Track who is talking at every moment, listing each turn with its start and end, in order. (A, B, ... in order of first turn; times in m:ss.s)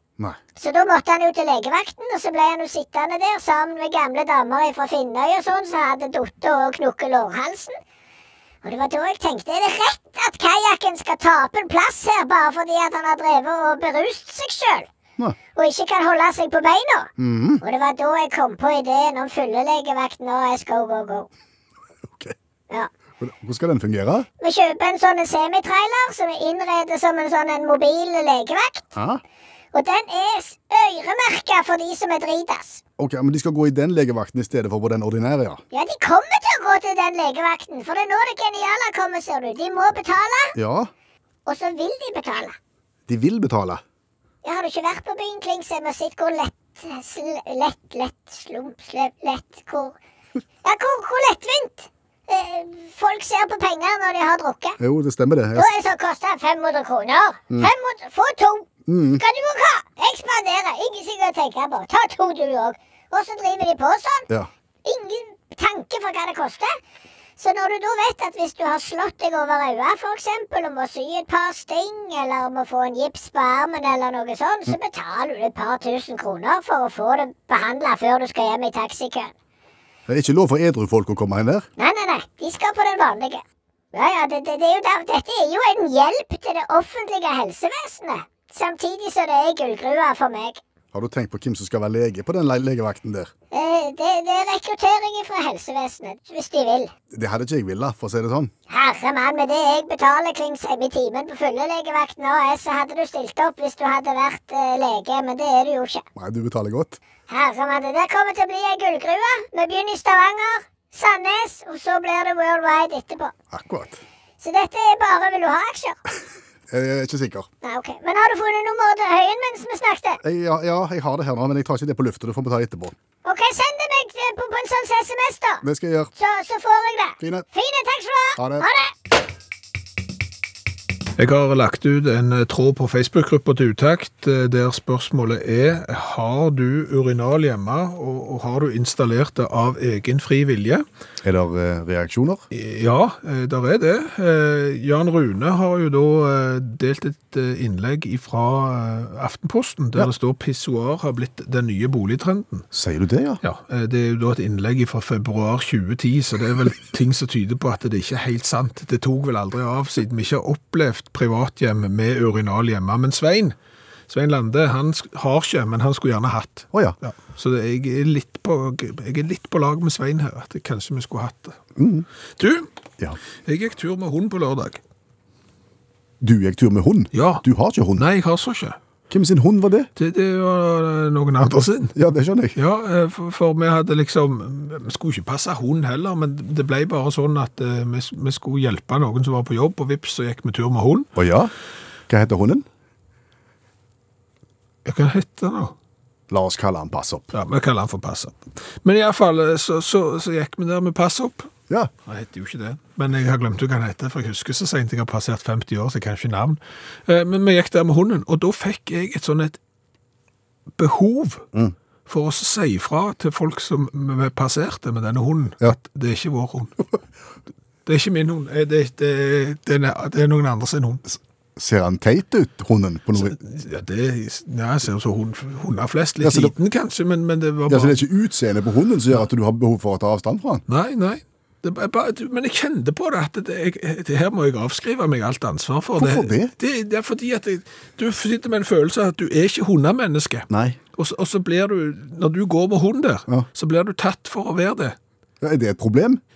0:00.6-0:07.8 A
0:08.6-0:14.9 A
0:15.6-0:17.1 A
0:17.2-0:17.6 B
0:17.6-0:21.3 A
0:22.1-0:22.3 B
0:23.2-0:24.3 B
0:24.4-0:28.9 A
0:28.9-0:29.2 B
0:29.7-0:32.8 A
0:33.0-0:35.6 B
0:35.7-0:40.5 A
0:40.5-0:40.9 B
0:41.4-0:42.6 A
0:43.1-0:43.8 B
0:44.4-0:50.0 A
0:50.6-0:54.8 A
0:54.8-0:55.7 B
0:55.5-1:04.3 A
0:58.8-0:59.2 B
1:04.8-1:06.8 A
1:07.4-1:19.3 A
1:20.1-1:21.7 B
1:21.8-1:30.6 A
1:30.9-1:33.3 B
1:33.5-1:36.9 A
1:37.1-1:38.5 B
1:38.7-1:46.0 A
1:46.1-1:47.0 B
1:47.3-1:53.3 A
1:53.5-1:54.0 B
1:54.4-1:56.0 A
1:56.7-1:57.5 B
1:57.6-2:00.2 A
2:00.2-2:02.9 B
2:03.2-2:05.6 A
2:05.6-2:06.1 B
2:06.2-2:08.9 A
2:07.2-2:07.5 B
2:08.4-2:08.7 B
2:11.2-2:20.8 C
2:21.2-2:22.4 B
2:22.5-2:32.7 C
2:32.7-2:33.4 B
2:33.4-2:43.6 C
2:44.1-2:51.6 C
2:51.8-2:52.0 B
2:52.4-2:52.7 C
2:53.4-2:54.8 C
2:56.2-2:58.0 B
2:57.1-2:57.4 C
2:57.9-2:58.8 C
2:59.1-2:59.9 B
3:00.0-3:02.0 C
3:01.9-3:02.6 B
3:02.5-3:11.1 C
3:11.2-3:11.5 B
3:12.1-3:12.6 B
3:14.8-3:15.7 C
3:16.3-3:17.3 B
3:17.3-3:21.5 C
3:22.0-3:29.6 C
3:30.8-3:31.5 C
3:32.0-3:36.8 C
3:37.8-3:41.0 C
3:41.0-3:43.4 B
3:43.2-3:48.0 C
3:46.2-3:46.5 B
3:47.7-3:50.6 B
3:50.7-4:05.0 C
3:56.0-3:56.5 B
4:00.5-4:00.8 B
4:05.4-4:06.2 B